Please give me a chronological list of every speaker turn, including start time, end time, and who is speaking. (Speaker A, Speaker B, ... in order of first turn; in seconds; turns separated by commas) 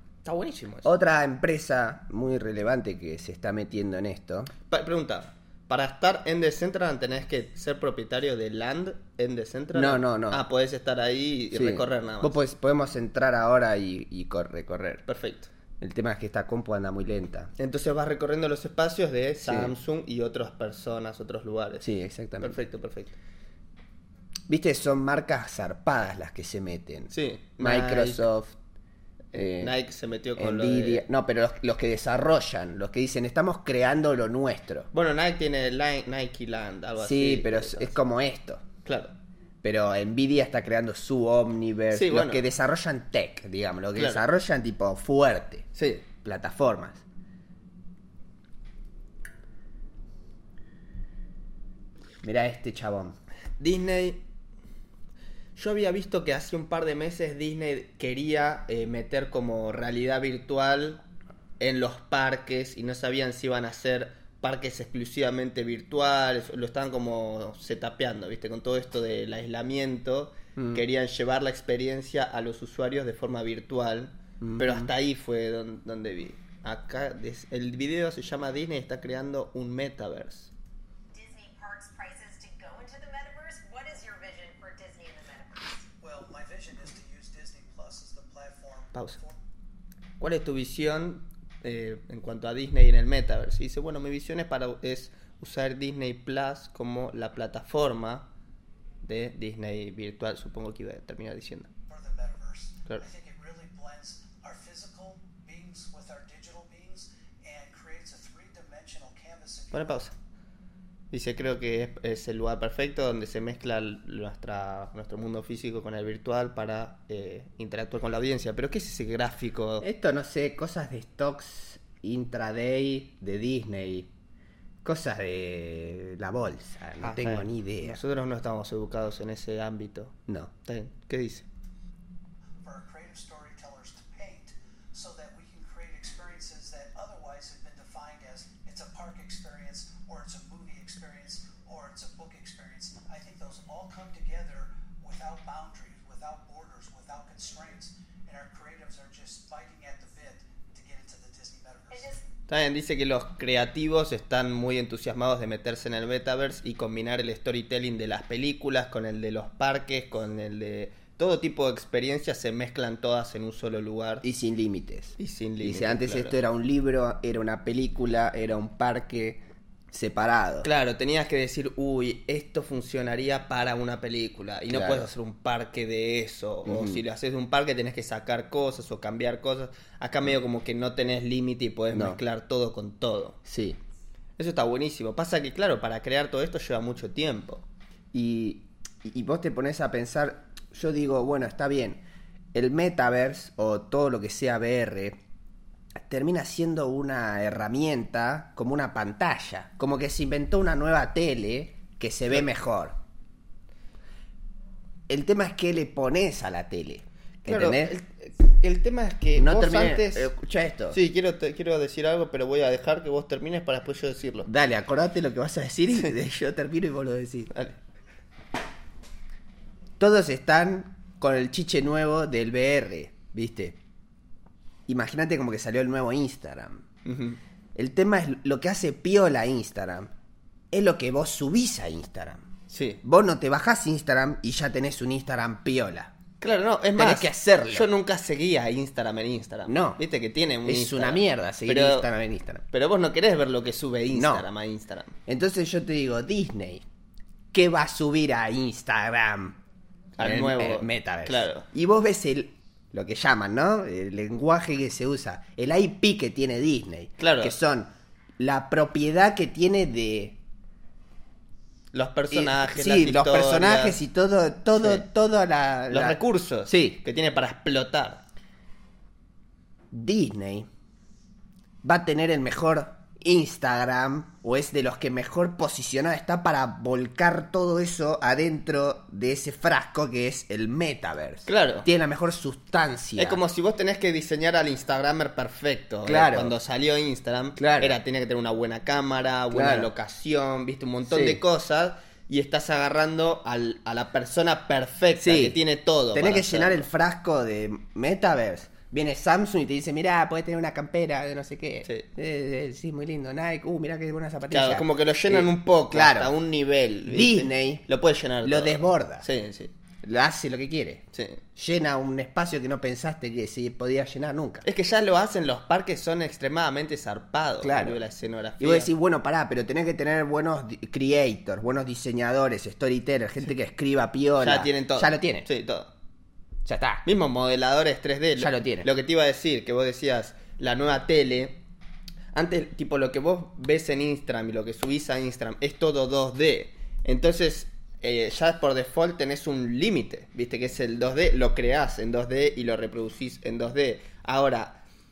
Speaker A: 0.2-0.9, Speaker B: 0.8-4.5, Speaker A: 4.7-12.3, Speaker B: 9.7-10.4, Speaker B: 11.5-15.0, Speaker A: 15.1-15.5, Speaker B: 15.8-17.5, Speaker A: 17.6-21.9, Speaker B: 19.4-19.7, Speaker B: 21.8-22.6, Speaker A: 22.4-23.1, Speaker B: 24.5-28.5, Speaker A: 27.1-28.3, Speaker A: 29.3-31.0, Speaker B: 29.3-29.7, Speaker B: 30.4-34.9, Speaker A: 34.9-38.0, Speaker B: 37.0-38.6, Speaker A: 38.8-39.1, Speaker B: 39.6-45.6, Speaker A: 41.9-42.5, Speaker A: 43.9-44.2, Speaker A: 45.7-46.0, Speaker B: 46.2-47.0, Speaker B: 52.2-53.2, Speaker A: 53.6-54.2, Speaker A: 55.5-61.0, Speaker A: 61.6-80.5, Speaker B: 70.5-70.8, Speaker B: 74.4-74.9, Speaker C: 81.1-85.9, Speaker D: 86.0-89.4, Speaker A: 88.9-89.2, Speaker A: 90.2-98.3, Speaker A: 99.0-101.7, Speaker D: 101.9-110.0, Speaker A: 109.7-110.1, Speaker A: 111.1-119.8, Speaker B: 119.8-124.1, Speaker B: 124.8-128.0, Speaker A: 127.0-131.4, Speaker D: 132.6-152.2, Speaker C: 151.9-152.2, Speaker A: 152.5-164.2, Speaker B: 164.2-170.7, Speaker A: 165.2-166.4, Speaker A: 170.6-183.4, Speaker B: 174.7-175.1, Speaker B: 176.7-177.0, Speaker B: 181.9-182.2, Speaker B: 183.4-183.8, Speaker A: 184.4-187.6, Speaker B: 188.1-192.0, Speaker B: 192.5-195.2, Speaker B: 195.9-202.9, Speaker B: 205.1-207.9, Speaker A: 207.4-210.3, Speaker B: 209.3-211.0, Speaker A: 210.9-214.5, Speaker B: 214.4-217.5, Speaker A: 217.5-217.8, Speaker B: 220.0-223.8, Speaker B: 224.9-226.8, Speaker A: 227.0-227.4, Speaker B: 227.7-230.1, Speaker B: 230.7-232.4, Speaker A: 232.7-233.0, Speaker B: 233.0-236.1, Speaker A: 236.4-242.1, Speaker B: 236.9-237.9, Speaker B: 239.7-240.0, Speaker B: 240.6-242.6, Speaker A: 242.7-245.1, Speaker B: 244.1-244.4, Speaker B: 245.3-246.8, Speaker B: 247.5-249.6, Speaker A: 250.2-251.7, Speaker B: 250.2-260.4, Speaker A: 257.2-257.6, Speaker A: 261.9-264.0, Speaker B: 262.3-267.0, Speaker A: 265.9-268.2, Speaker B: 269.9-270.7, Speaker B: 271.8-283.4, Speaker A: 281.4-281.9, Speaker A: 283.2-296.8, Speaker B: 286.0-286.5, Speaker B: 287.6-287.9, Speaker B: 289.5-289.9, Speaker B: 291.1-291.4, Speaker B: 295.2-295.6, Speaker B: 296.1-306.3, Speaker A: 304.5-309.7, Speaker B: 307.1-307.8, Speaker B: 308.4-309.2, Speaker B: 310.0-311.0, Speaker A: 311.1-311.4, Speaker B: 311.6-314.6, Speaker A: 314.6-318.9, Speaker B: 317.6-318.0, Speaker B: 318.6-325.5, Speaker A: 324.4-325.9, Speaker B: 326.6-327.0, Speaker A: 327.0-331.6, Speaker B: 328.4-328.9, Speaker A: 332.3-344.8